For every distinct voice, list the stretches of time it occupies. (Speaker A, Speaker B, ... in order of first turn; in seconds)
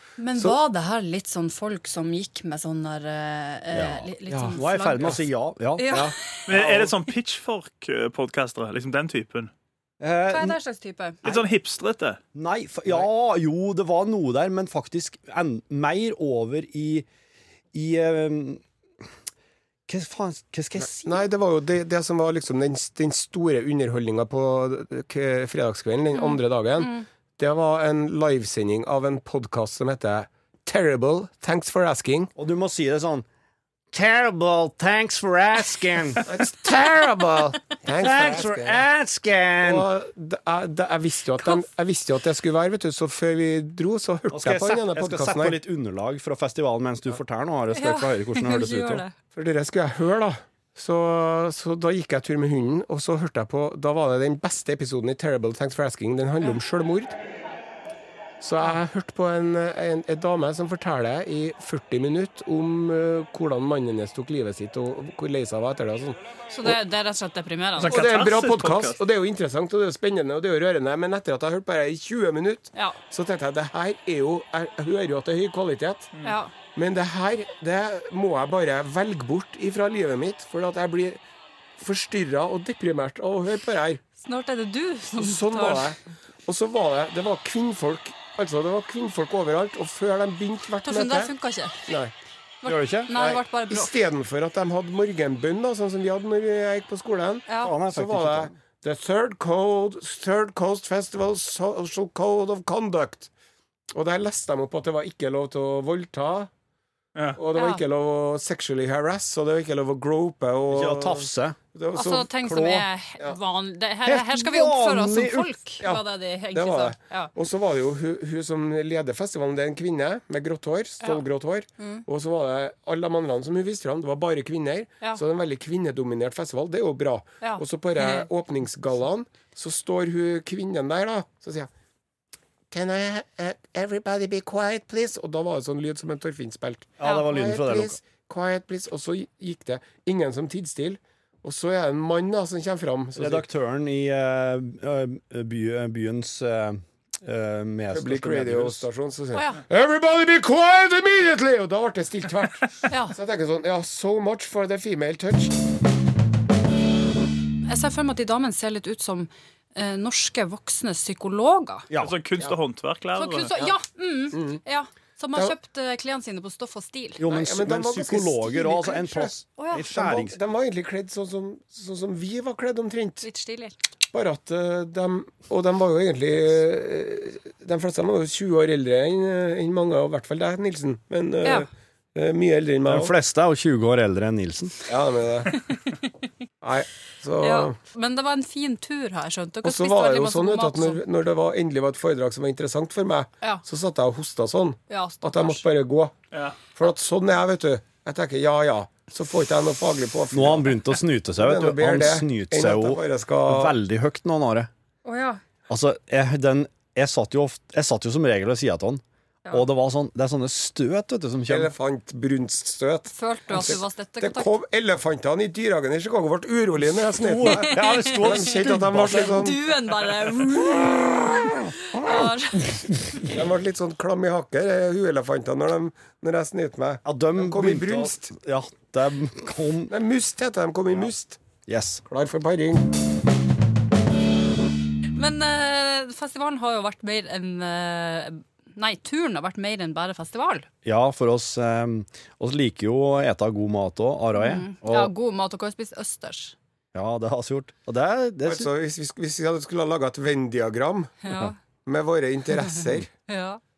Speaker A: 0.2-5.2, 5.8-6.5, 10.3-11.2, 26.1-27.0, 47.7-49.1, 66.5-68.0, 76.2-76.5, 84.2-85.9, 90.8-91.9, 92.6-93.9, 97.5-97.7, 107.5-107.8, 112.0-117.3, 121.8-122.0, 127.4-128.3, 149.3-149.6, 152.9-153.2, 157.7-161.9, 163.2-167.2, 169.6-169.9, 173.2-173.8, 185.6-186.1, 187.4-191.0, 194.9-195.6, 205.1-205.4, 213.1-214.5, 217.4-218.4, 219.1-223.2, 235.2-240.7, 244.3-246.6, 251.2-251.6, 252.6-253.6
Speaker B: 3.7-6.0, 10.0-10.6, 12.3-17.1, 17.7-18.6, 19.9-21.2, 32.4-33.2, 33.9-36.3, 37.9-39.9, 44.3-49.0, 92.7-93.1, 97.6-98.5, 110.7-111.6, 112.4-112.9, 114.1-115.5, 137.0-138.0, 143.2-148.8, 161.9-162.2, 167.2-170.4, 182.9-184.8, 200.3-204.7, 205.7-211.7, 217.2-219.6, 222.0-222.3, 227.1-229.9, 231.7-232.0, 240.8-245.1, 246.9-248.7
Speaker C: 4.3-5.2, 5.9-6.9, 20.8-32.3, 36.2-38.8, 39.6-45.6, 49.3-57.2, 58.4-66.8, 67.9-76.1, 76.8-81.2, 81.8-84.0, 85.2-91.3, 91.9-92.1, 93.1-103.3, 103.9-106.5, 107.4-112.3, 115.8-131.7, 132.7-143.5, 147.9-155.5, 164.3-164.6, 167.3-173.2, 174.1-183.1, 184.9-185.6, 186.6-187.8, 189.6-196.1, 196.8-200.8, 201.3-203.8, 211.5-219.6, 223.3-228.3, 229.9-231.4, 232.1-232.9, 248.4-251.2, 251.8-253.1
Speaker D: 6.5-9.5, 11.2-12.2, 67.8-69.0, 162.0-163.5, 196.3-196.6